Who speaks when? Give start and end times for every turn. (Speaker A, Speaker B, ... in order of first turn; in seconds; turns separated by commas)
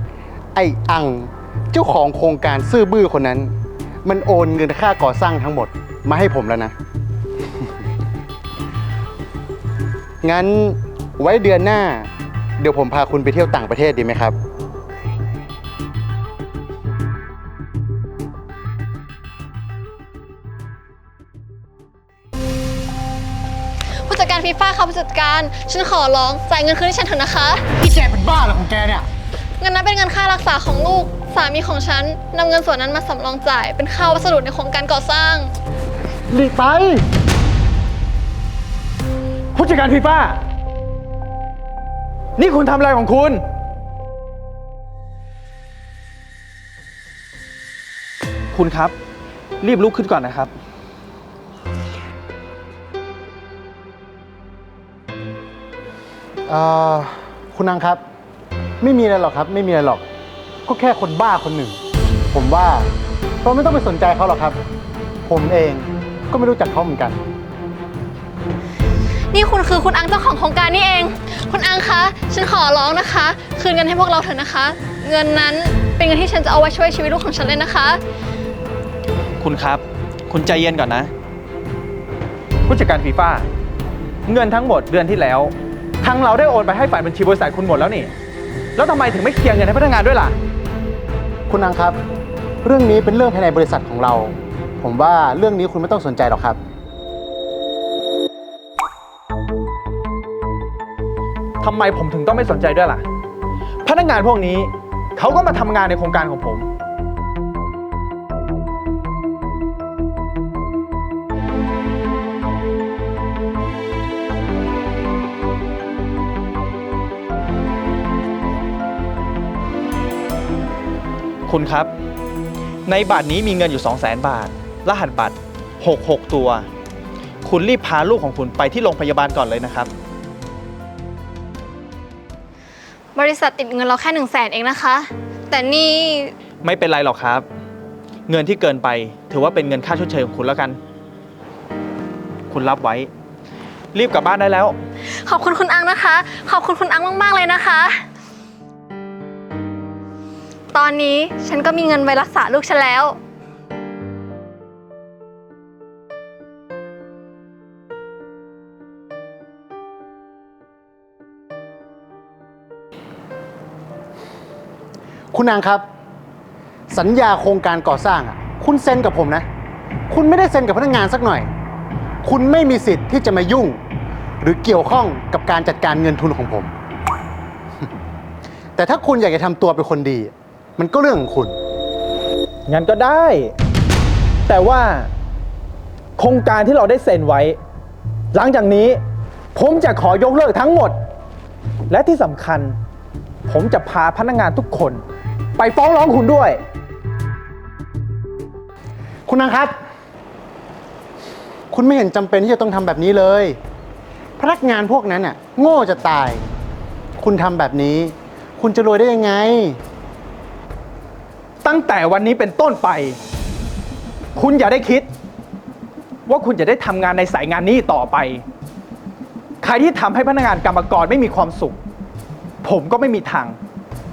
Speaker A: 0.5-6.7, Speaker A: 10.2-14.4, Speaker B: 24.0-27.7, Speaker A: 27.8-29.1, Speaker B: 29.6-35.5, Speaker A: 36.3-37.0, Speaker C: 39.5-40.4, Speaker C: 42.4-43.4, Speaker C: 48.5-48.9, Speaker C: 49.6-50.5, Speaker A: 56.5-58.0, Speaker A: 58.8-60.0, Speaker A: 60.6-61.8, Speaker A: 62.3-62.9, Speaker A: 63.4-64.6, Speaker A: 65.2-67.2, Speaker B: 69.3-78.0, Speaker C: 79.4-81.1, Speaker C: 82.7-83.5, Speaker C: 84.2-88.1, Speaker C: 88.8-90.3, Speaker A: 91.5-92.0, Speaker A: 92.6-96.6, Speaker C: 101.6-103.0, Speaker C: 103.8-106.7, Speaker C: 121.5-121.9, Speaker C: 122.8-126.7, Speaker C: 127.4-129.9, Speaker B: 133.2-136.3, Speaker C: 136.6-137.4, Speaker C: 138.3-140.8, Speaker C: 142.5-143.1, Speaker C: 143.9-144.8, Speaker B: 145.2-148.0, Speaker B: 150.7-153.2, Speaker A: 165.3-165.8, Speaker A: 166.9-169.4, Speaker A: 170.1-171.5, Speaker A: 172.2-173.8, Speaker A: 174.4-176.7, Speaker A: 178.8-181.6, Speaker C: 182.7-183.5, Speaker C: 184.5-185.1, Speaker C: 186.2-187.6, Speaker C: 188.3-189.0, Speaker C: 189.5-190.9, Speaker C: 191.9-192.8, Speaker C: 193.4-195.0, Speaker C: 195.6-196.6, Speaker A: 199.2-199.8, Speaker A: 201.7-203.6, Speaker A: 204.4-206.5, Speaker A: 207.2-209.8, Speaker C: 211.6-213.2, Speaker C: 214.3-215.1, Speaker C: 216.3-218.4, Speaker C: 219.6-221.8, Speaker C: 222.6-223.6